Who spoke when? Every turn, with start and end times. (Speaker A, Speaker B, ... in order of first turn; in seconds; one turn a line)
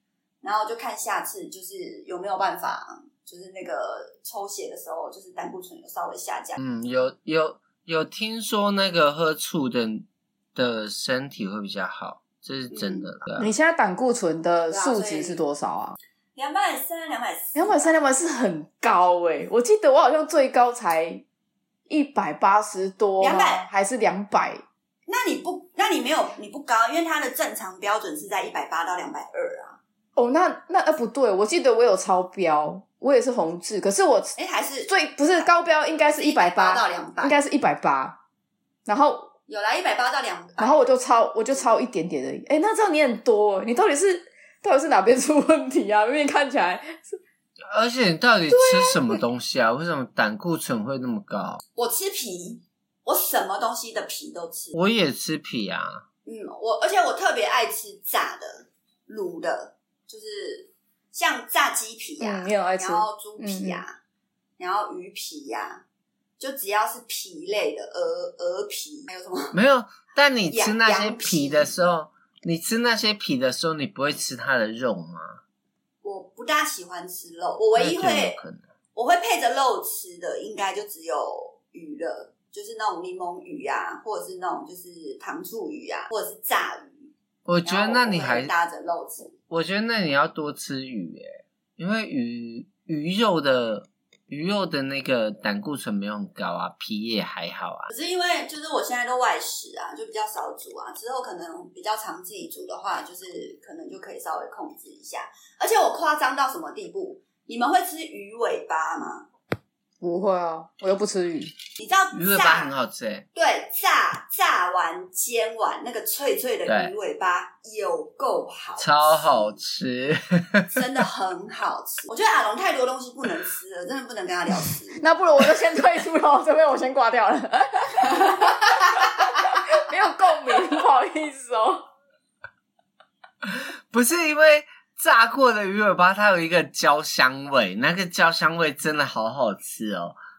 Speaker A: 0.4-6.6
Speaker B: 6.6-13.5
Speaker A: 12.7-13.1
Speaker C: 13.4-16.0
Speaker A: 14.7-15.4
Speaker A: 16.4-17.9
Speaker C: 17.6-21.2
Speaker C: 21.9-24.6
Speaker A: 23.2-23.7
Speaker A: 25.1-29.8
Speaker C: 30.2-34.4
Speaker A: 34.4-35.5
Speaker C: 34.9-38.2
Speaker A: 36.1-37.4
Speaker C: 38.9-39.3
Speaker A: 39.5-40.8
Speaker C: 40.6-47.2
Speaker B: 47.7-51.6
Speaker C: 48.5-49.2
Speaker A: 51.8-54.8
Speaker B: 54.7-56.0
Speaker A: 56.2-64.0
Speaker C: 62.2-63.8
Speaker A: 64.6-65.8
Speaker A: 66.4-69.5
Speaker B: 69.5-75.4
Speaker A: 70.5-71.7
Speaker A: 76.0-78.4
Speaker B: 77.8-78.6
Speaker A: 79.0-87.1
Speaker B: 87.5-88.5
Speaker A: 87.7-89.3
Speaker B: 89.5-97.9
Speaker A: 97.9-109.3
Speaker C: 110.0-111.5
Speaker A: 111.8-112.7
Speaker B: 112.1-113.2
Speaker A: 113.3-119.5
Speaker B: 116.7-116.9
Speaker B: 118.8-120.8
Speaker A: 120.7-125.0
Speaker C: 125.0-128.6
Speaker C: 129.2-131.8
Speaker B: 133.4-140.2